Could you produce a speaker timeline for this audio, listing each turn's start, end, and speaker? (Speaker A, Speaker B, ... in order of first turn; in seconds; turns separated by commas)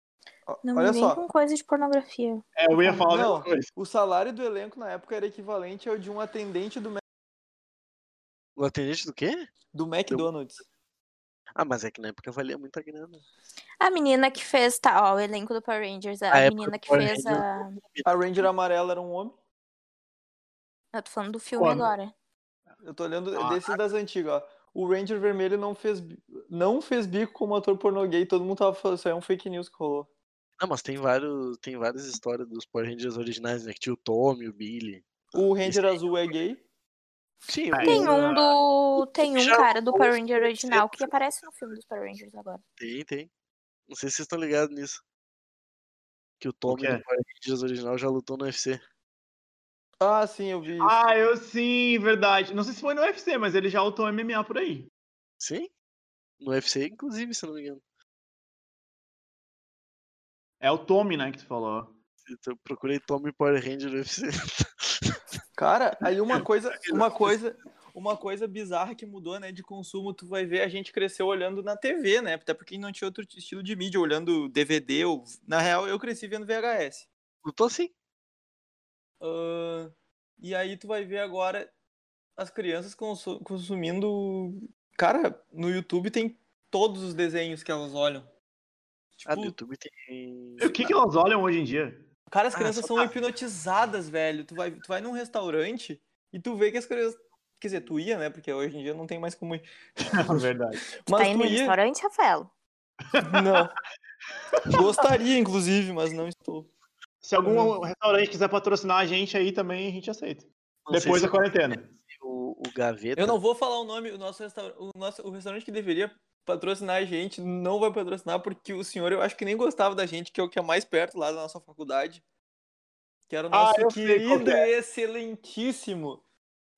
Speaker A: 0.5-1.2, Speaker B: 0.6-3.0, Speaker C: 2.6-3.7, Speaker A: 3.1-7.0, Speaker D: 8.6-9.5, Speaker A: 9.7-10.6, Speaker D: 11.6-13.2, Speaker B: 13.8-17.8, Speaker D: 16.3-18.5, Speaker A: 18.0-19.3, Speaker B: 20.9-22.1, Speaker C: 21.6-21.9, Speaker A: 22.8-30.1, Speaker C: 23.4-23.8, Speaker D: 30.6-36.4, Speaker A: 35.3-36.6, Speaker D: 37.5-38.3, Speaker C: 37.7-38.6, Speaker B: 37.8-42.6, Speaker D: 39.0-41.1, Speaker D: 42.8-43.3, Speaker D: 43.9-45.0, Speaker D: 46.4-48.8, Speaker C: 46.7-47.0, Speaker A: 50.0-51.0, Speaker C: 50.8-54.9, Speaker D: 55.4-55.7, Speaker D: 56.4-57.8, Speaker C: 60.6-61.9, Speaker D: 62.2-65.2, Speaker A: 65.6-77.1, Speaker D: 66.4-67.4, Speaker D: 77.4-77.9, Speaker A: 79.2-81.7, Speaker A: 82.4-88.3, Speaker A: 89.2-89.5, Speaker D: 89.3-91.0, Speaker C: 90.6-92.1, Speaker A: 92.3-99.7, Speaker D: 92.5-93.1, Speaker C: 100.1-100.8, Speaker A: 101.0-101.8, Speaker B: 101.1-102.5, Speaker C: 103.1-103.5, Speaker A: 103.2-103.8, Speaker C: 104.5-104.8, Speaker A: 104.7-106.7, Speaker C: 107.2-111.9, Speaker A: 107.4-107.8, Speaker D: 110.9-111.4, Speaker D: 112.1-113.4, Speaker A: 113.2-122.2, Speaker A: 123.3-126.2, Speaker C: 123.5-124.7